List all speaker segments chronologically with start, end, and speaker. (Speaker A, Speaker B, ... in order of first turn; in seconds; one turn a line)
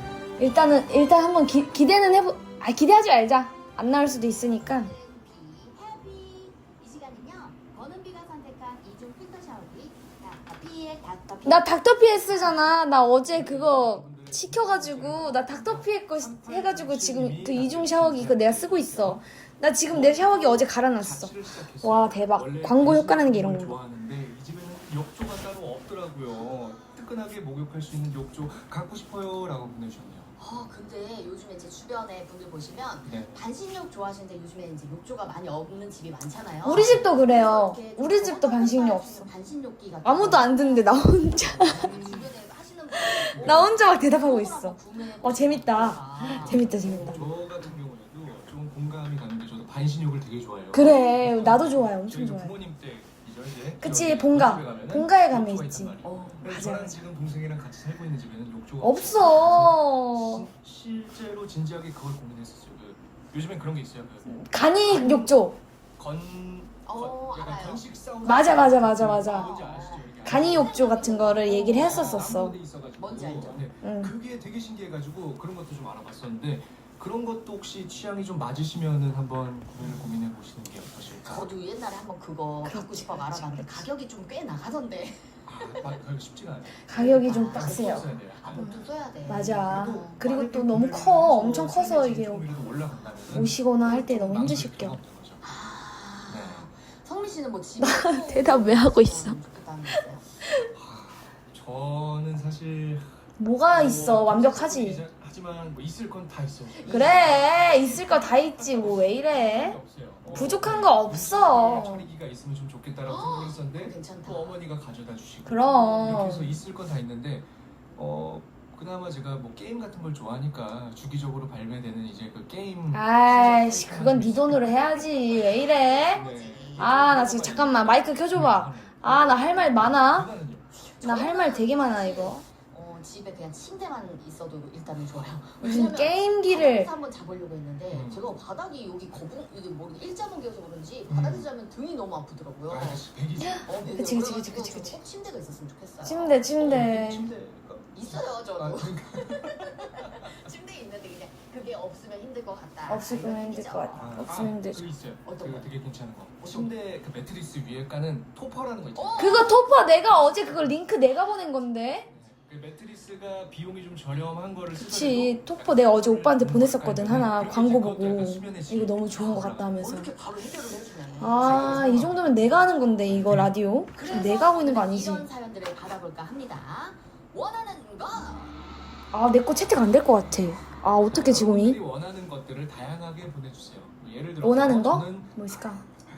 Speaker A: 0.4-4.9
Speaker B: 4.5-11.8
Speaker A: 11.4-23.8
Speaker C: 13.3-19.2
Speaker C: 19.9-30.4
Speaker B: 26.5-26.9
Speaker B: 30.4-47.0
Speaker C: 33.1-33.4
Speaker A: 36.6-39.3
Speaker C: 36.8-37.1
Speaker A: 40.0-42.0
Speaker C: 41.5-42.3
Speaker A: 43.0-47.3
Speaker C: 43.3-43.8
Speaker C: 46.2-64.4
Speaker A: 50.7-52.5
Speaker A: 53.8-57.0
Speaker B: 56.0-56.6
Speaker A: 58.8-60.5
Speaker A: 64.3-65.6
Speaker B: 64.9-65.3
Speaker C: 66.0-70.8
Speaker B: 66.8-67.9
Speaker A: 68.2-69.5
Speaker B: 69.2-72.3
Speaker A: 70.2-72.6
Speaker C: 71.4-81.5
Speaker B: 73.0-73.7
Speaker A: 73.8-74.1
Speaker B: 81.2-85.9
Speaker A: 82.7-83.9
Speaker C: 85.5-88.7
Speaker A: 86.9-88.7
Speaker B: 86.9-90.2
Speaker A: 89.3-92.5
Speaker C: 89.7-95.4
Speaker A: 93.3-95.0
Speaker B: 95.4-100.3
Speaker C: 96.3-96.7
Speaker A: 97.8-99.4
Speaker C: 100.7-124.9
Speaker A: 103.4-105.0
Speaker B: 106.8-107.6
Speaker A: 106.9-109.8
Speaker B: 110.2-110.8
Speaker A: 110.3-112.1
Speaker B: 113.0-114.6
Speaker A: 115.5-116.5
Speaker A: 122.9-126.2
Speaker B: 125.0-127.0
Speaker C: 126.1-130.7
Speaker A: 126.8-130.3
Speaker B: 130.8-143.1
Speaker A: 131.0-132.4
Speaker A: 135.6-136.9
Speaker C: 137.9-138.4
Speaker C: 141.1-141.5
Speaker C: 142.7-143.9
Speaker A: 143.4-145.0
Speaker B: 143.7-146.5
Speaker A: 146.0-147.3
Speaker C: 146.6-150.3
Speaker B: 147.9-154.3
Speaker A: 152.9-154.8
Speaker C: 153.9-159.4
Speaker B: 155.2-155.7
Speaker B: 156.4-156.7
Speaker B: 158.9-159.8
Speaker A: 159.2-162.1
Speaker C: 162.1-169.8
Speaker A: 164.8-170.1
Speaker B: 169.8-172.7
Speaker A: 171.2-175.3
Speaker C: 171.4-172.3
Speaker C: 173.1-173.5
Speaker B: 173.9-178.5
Speaker A: 179.1-181.8
Speaker C: 181.1-185.4
Speaker A: 184.4-185.8